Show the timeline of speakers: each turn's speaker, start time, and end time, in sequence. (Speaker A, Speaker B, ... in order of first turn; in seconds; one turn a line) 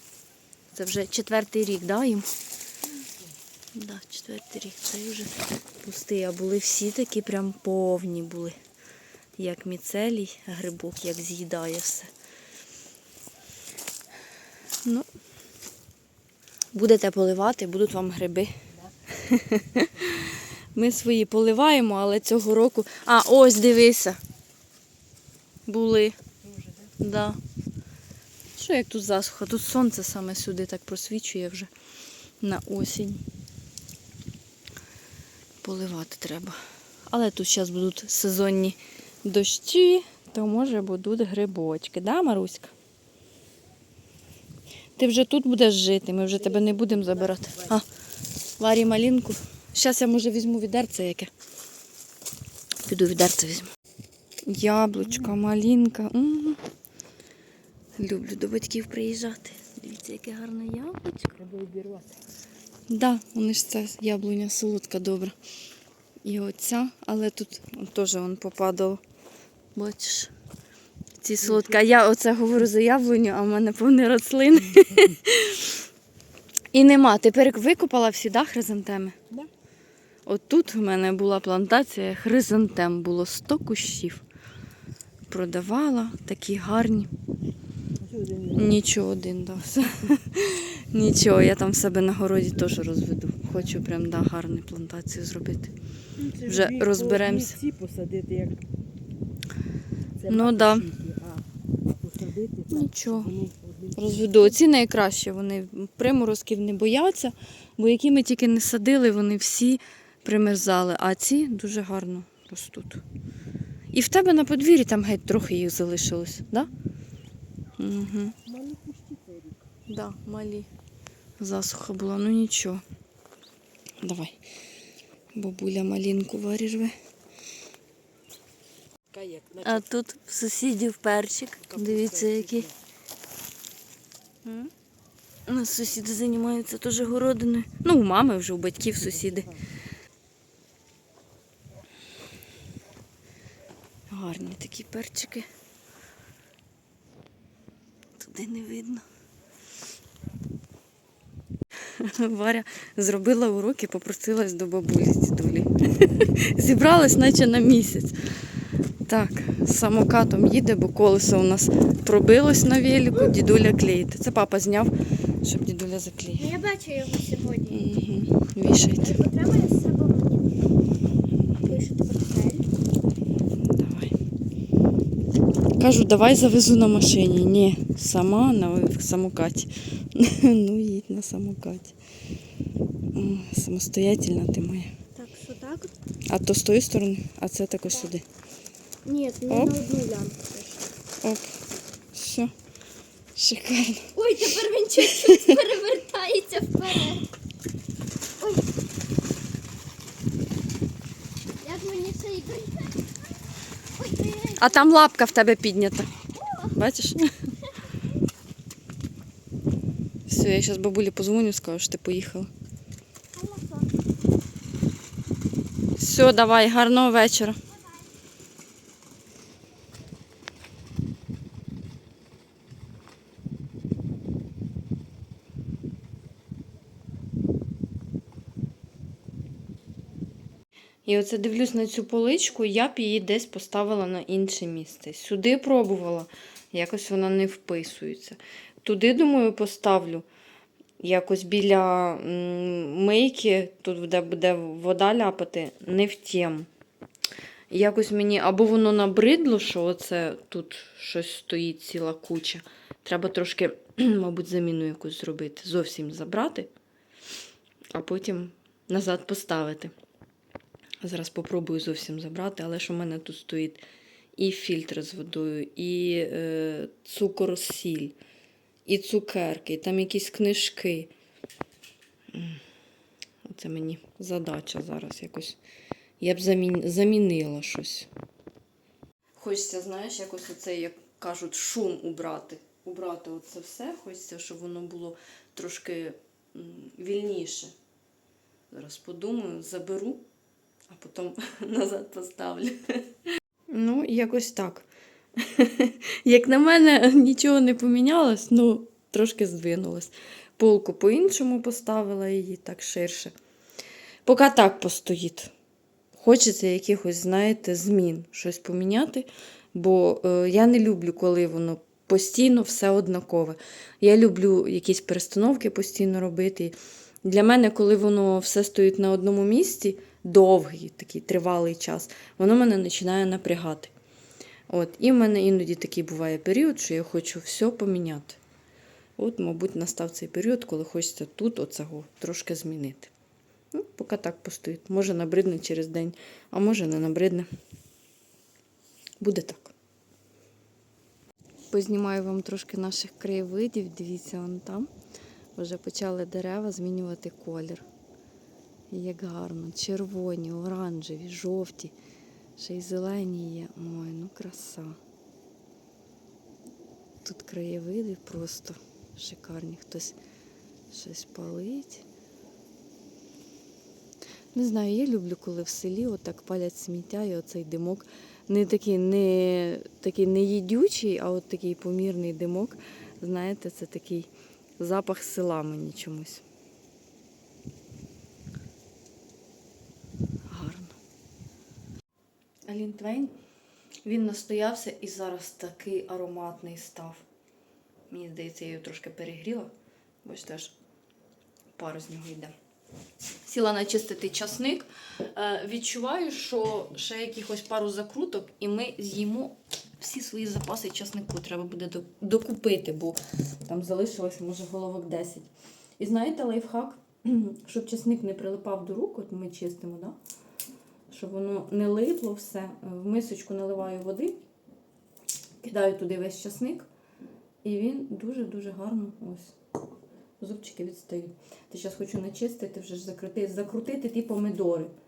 Speaker A: 0.7-2.3
Speaker B: 3.0-3.3
Speaker A: 3.8-8.6
Speaker A: 9.4-12.1
Speaker A: 16.7-18.5
Speaker B: 18.7-19.2
Speaker A: 19.2-24.2
Speaker B: 19.7-20.1
Speaker A: 25.7-26.2
Speaker B: 26.4-27.0
Speaker A: 27.0-27.4
Speaker A: 28.5-31.7
Speaker A: 32.4-33.2
Speaker A: 35.6-36.6
Speaker A: 37.1-42.7
Speaker A: 45.0-47.9
Speaker B: 46.3-47.8
Speaker A: 48.6-51.3
Speaker A: 52.9-53.7
Speaker A: 54.5-56.6
Speaker B: 55.0-55.4
Speaker A: 58.0-61.4
Speaker B: 61.4-62.1
Speaker A: 62.9-65.3
Speaker A: 66.2-69.0
Speaker A: 69.8-70.3
Speaker A: 71.2-75.8
Speaker B: 71.4-71.9
Speaker A: 76.7-79.2
Speaker A: 80.3-84.2
Speaker A: 85.3-87.1
Speaker B: 88.0-88.8
Speaker A: 88.6-95.7
Speaker B: 96.2-98.6
Speaker A: 96.5-97.6
Speaker B: 100.2-104.6
Speaker A: 100.3-100.9
Speaker A: 102.7-103.3
Speaker A: 104.0-113.0
Speaker A: 113.9-116.7
Speaker A: 117.8-118.3
Speaker B: 118.5-119.7
Speaker A: 119.9-120.7
Speaker A: 121.4-122.8
Speaker A: 124.0-124.4
Speaker A: 125.3-127.0
Speaker B: 129.1-129.9
Speaker A: 129.6-132.7
Speaker B: 131.6-132.8
Speaker A: 134.4-134.7
Speaker A: 135.5-139.5
Speaker B: 139.0-139.6
Speaker A: 144.1-145.5
Speaker A: 148.2-149.1
Speaker A: 151.9-158.2
Speaker A: 159.1-166.5
Speaker C: 166.4-167.9
Speaker A: 167.7-169.2
Speaker C: 169.0-170.6
Speaker A: 171.3-171.8
Speaker C: 171.6-172.7
Speaker A: 173.6-174.1
Speaker A: 175.8-181.9
Speaker A: 183.2-184.9
Speaker C: 185.2-185.9
Speaker A: 186.3-188.2
Speaker C: 189.1-190.8
Speaker A: 189.5-189.8
Speaker A: 191.2-191.6
Speaker A: 192.1-192.5
Speaker A: 193.4-194.5
Speaker C: 194.2-197.3
Speaker A: 195.0-195.5
Speaker C: 198.4-198.7
Speaker C: 201.6-203.1
Speaker C: 204.0-205.1
Speaker A: 204.6-206.1
Speaker C: 206.3-206.8
Speaker A: 206.8-207.3
Speaker A: 210.3-212.5
Speaker C: 213.3-213.9
Speaker A: 216.0-217.6
Speaker A: 231.1-240.3
Speaker A: 241.0-246.7
Speaker A: 247.7-256.7
Speaker A: 257.9-259.9
Speaker A: 261.0-263.8
Speaker A: 264.4-268.2
Speaker A: 268.9-271.1
Speaker A: 272.3-272.6
Speaker A: 273.4-275.6
Speaker A: 276.2-278.1
Speaker A: 279.4-287.7
Speaker A: 288.7-290.2
Speaker A: 290.9-293.1
Speaker A: 293.7-294.9
Speaker A: 295.4-303.3
Speaker A: 304.2-305.5
Speaker A: 306.1-323.9
Speaker A: 324.7-328.4
Speaker A: 329.2-333.1
Speaker A: 333.7-337.5
Speaker A: 339.2-339.7
Speaker A: 341.7-344.9
Speaker A: 345.6-347.9
Speaker A: 348.9-351.9
Speaker A: 352.6-355.0
Speaker A: 357.2-360.1
Speaker A: 360.9-362.0
Speaker A: 364.6-376.4
Speaker A: 380.5-381.0
Speaker A: 382.7-383.3
Speaker A: 384.0-387.2
Speaker A: 388.1-389.7
Speaker A: 390.2-390.8
Speaker A: 391.8-392.5
Speaker A: 393.4-410.2
Speaker A: 411.1-414.4
Speaker A: 415.6-416.9
Speaker A: 417.6-419.6
Speaker A: 420.4-424.9